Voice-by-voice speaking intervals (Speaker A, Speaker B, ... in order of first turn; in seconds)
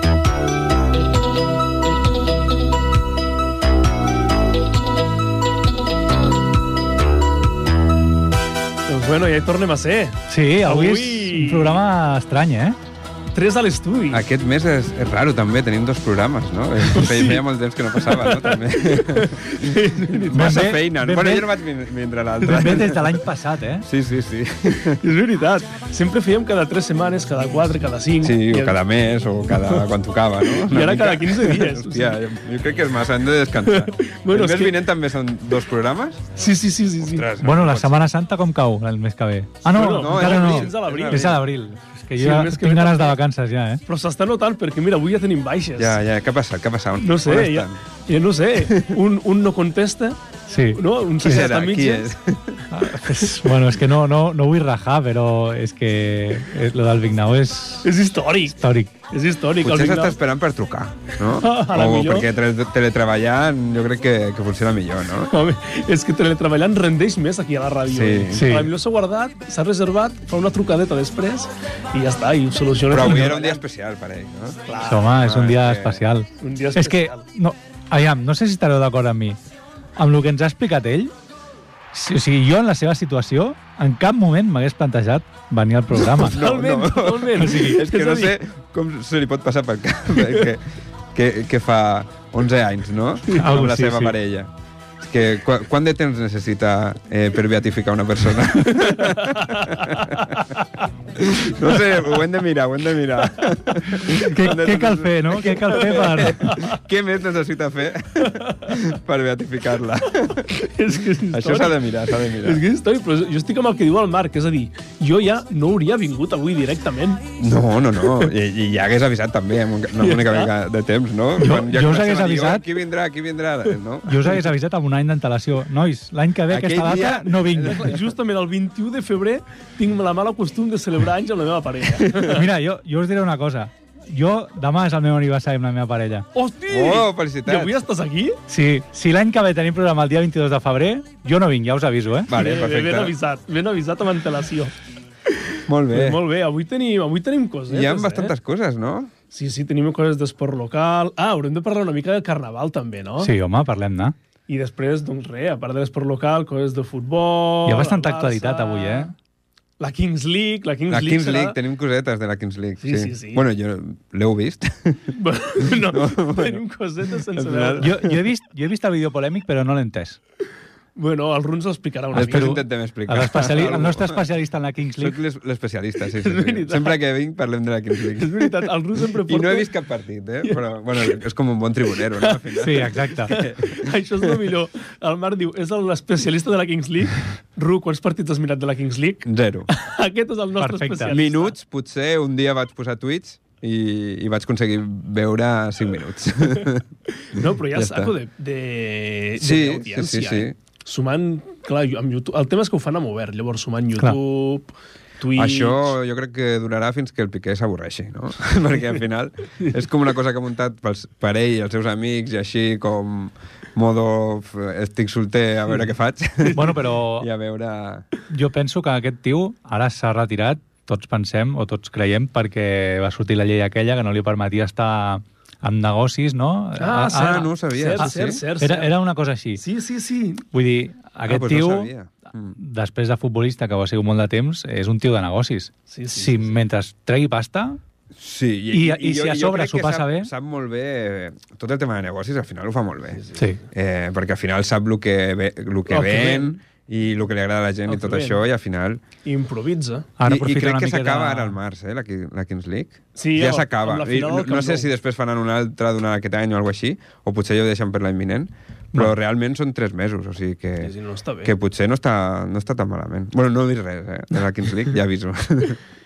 Speaker A: 8.9-11.8, 13.3-14.2, 16.9-17.4, 18.0-20.7, 22.4-22.9, 24.9-28.8, 29.5-29.9, 30.4-32.2, 33.6-34.8, 36.4-37.3, 39.7-41.4, 42.2-43.2, 43.9-46.0, 47.0-50.2, 50.7-52.1, 57.8-58.6, 59.1-60.2, 61.4-62.3, 65.3-73.6, 74.7-75.1, 76.4-77.2, 86.2-88.3, 98.8-99.8, 105.4-106.8, 108.2-108.8, 110.4-117.3, 120.0-120.5, 127.6-132.4, 136.3-138.4, 142.3-144.7, 145.3-148.3, 149.3-153.3, 154.5-159.1, 159.8-161.6, 162.8-163.4, 165.1-167.9, 170.9-172.5, 176.2-177.0, 178.2-179.7, 183.3-191.5, 197.2-205.9, 226.8-228.9, 229.6-230.4, 235.9-236.5, 245.8-246.6, 247.9-248.4, 249.2-250.1, 253.2-254.9, 260.8-261.5
Speaker B: 10.3-12.8, 20.3-21.5, 22.4-23.9, 37.4-43.8, 50.5-51.5, 52.7-57.9, 58.6-59.0, 68.3-68.7, 74.9-79.4, 80.0-81.1, 81.9-86.4, 87.4-87.8, 93.3-94.1, 104.0-106.5, 121.4-122.6, 124.0-127.9, 132.3-136.3, 138.5-142.3, 153.2-154.1, 157.7-159.1, 167.8-170.2, 172.1-175.2, 182.6-183.3, 190.6-191.2, 216.5-217.3, 218.3-229.6, 230.5-231.9, 232.6-237.8, 238.7-240.3, 250.2-251.6
Speaker C: 14.1-23.2, 23.8-25.0, 28.2-36.3, 37.0-38.0, 39.9-41.3, 45.8-47.8, 48.6-49.0, 51.2-52.6, 59.6-65.3, 67.9-68.5, 72.9-74.6, 75.2-76.0, 86.2-110.5, 111.3-112.6, 117.4-124.3, 126.5-128.0, 136.7-137.8, 142.3-143.1, 145.7-146.2, 147.7-149.1, 160.9-166.6, 167.3-168.3, 172.1-174.2, 175.0-178.7, 179.2-184.5, 189.2-189.7, 191.1-196.8, 197.7-198.1, 199.4-200.6, 205.3-218.1, 227.0-228.4, 231.2-232.6, 238.1-249.0, 250.2-265.8